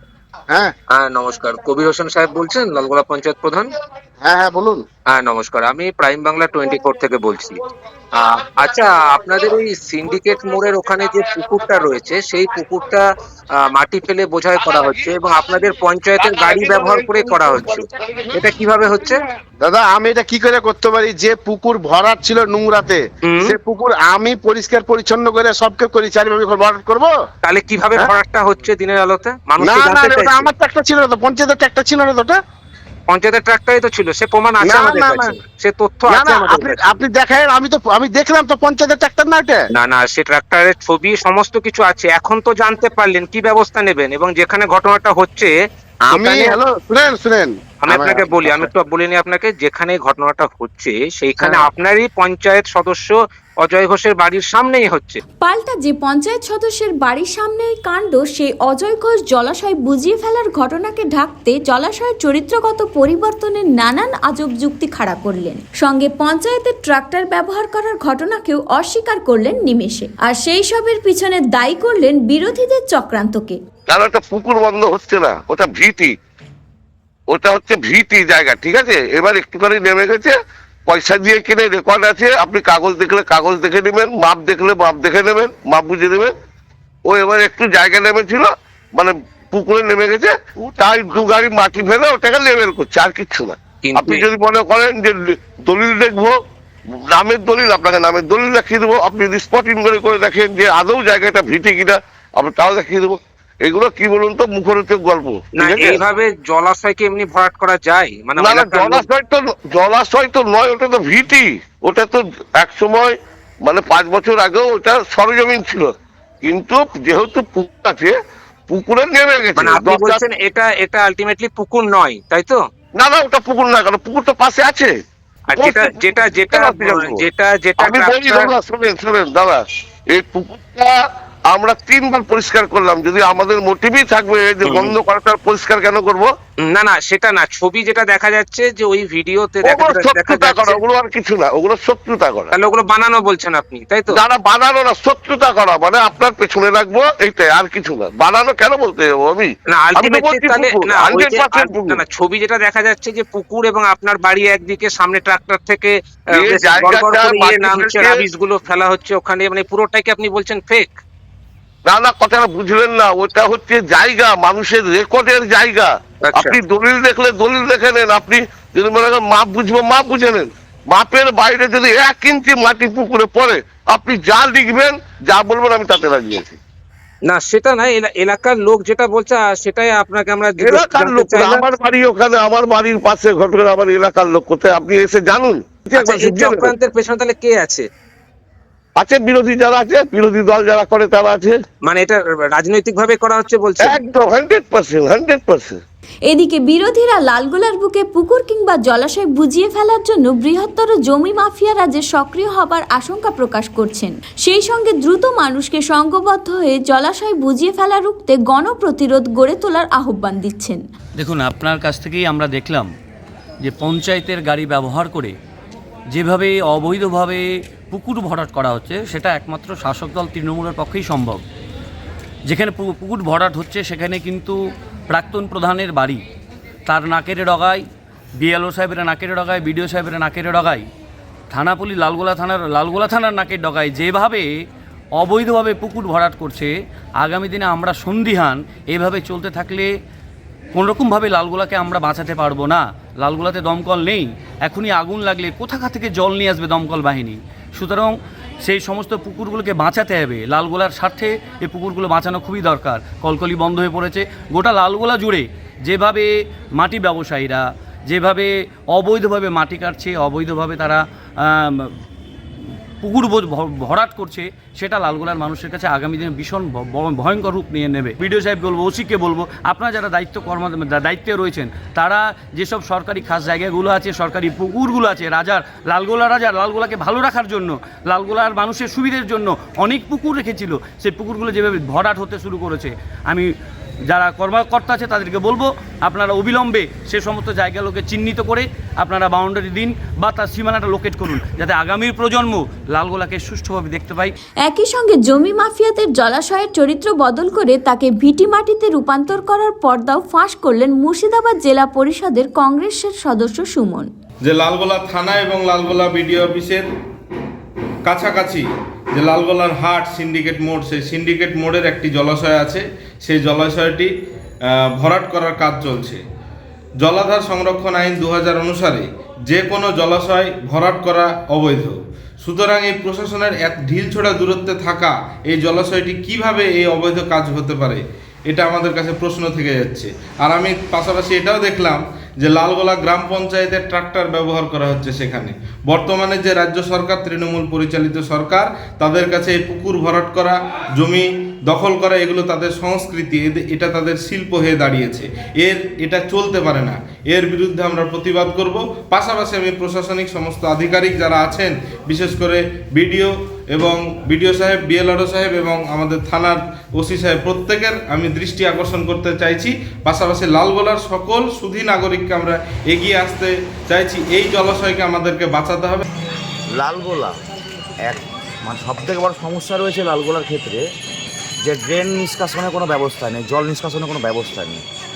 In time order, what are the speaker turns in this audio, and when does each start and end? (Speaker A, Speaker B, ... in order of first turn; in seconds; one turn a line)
Speaker A: 0.9-3.7
Speaker B: 4.2-4.9
Speaker A: 5.1-7.6
Speaker A: 8.2-19.2
Speaker C: 14.6-15.3
Speaker C: 16.2-19.2
Speaker B: 19.6-27.2
Speaker A: 23.3-23.6
Speaker A: 27.4-30.5
Speaker B: 29.6-32.4
Speaker A: 33.1-37.0
Speaker B: 34.6-35.4
Speaker B: 36.1-39.7
Speaker A: 39.7-45.5
Speaker B: 46.1-48.7
Speaker A: 47.8-55.2
Speaker B: 51.4-51.7
Speaker D: 55.4-73.6
Speaker C: 73.9-76.1
Speaker C: 77.3-80.3
Speaker C: 80.9-86.3
Speaker C: 87.1-96.3
Speaker A: 93.8-94.2
Speaker C: 97.1-106.0
Speaker A: 105.6-109.1
Speaker C: 108.4-115.9
Speaker C: 116.4-118.2
Speaker C: 118.7-120.2
Speaker A: 119.6-122.6
Speaker C: 123.0-125.0
Speaker A: 125.5-128.5
Speaker C: 125.6-127.2
Speaker C: 127.8-129.6
Speaker C: 130.1-131.0
Speaker C: 131.5-136.3
Speaker A: 134.7-134.9
Speaker A: 136.6-140.8
Speaker C: 139.6-142.5
Speaker A: 142.5-144.2
Speaker C: 144.1-152.0
Speaker A: 149.7-160.9
Speaker C: 156.3-158.2
Speaker C: 161.9-176.6
Speaker A: 166.3-166.6
Speaker A: 177.2-181.7
Speaker C: 180.6-186.7
Speaker A: 185.9-187.8
Speaker C: 189.0-191.6
Speaker A: 191.8-194.0
Speaker C: 193.8-195.8
Speaker D: 196.3-210.8
Speaker E: 211.2-212.9
Speaker E: 213.6-215.3
Speaker E: 216.1-221.4
Speaker E: 222.5-224.6
Speaker E: 225.1-226.2
Speaker E: 226.9-227.8
Speaker E: 228.4-230.9
Speaker E: 231.5-234.5
Speaker E: 235.2-239.9
Speaker E: 240.7-262.0
Speaker E: 262.6-283.5
Speaker E: 284.1-294.4
Speaker D: 294.6-304.1
Speaker F: 304.4-306.9
Speaker F: 308.1-308.6
Speaker F: 309.2-314.1
Speaker F: 314.7-316.2
Speaker F: 317.0-366.0
Speaker G: 366.8-367.3
Speaker G: 368.1-370.8
Speaker G: 371.6-374.8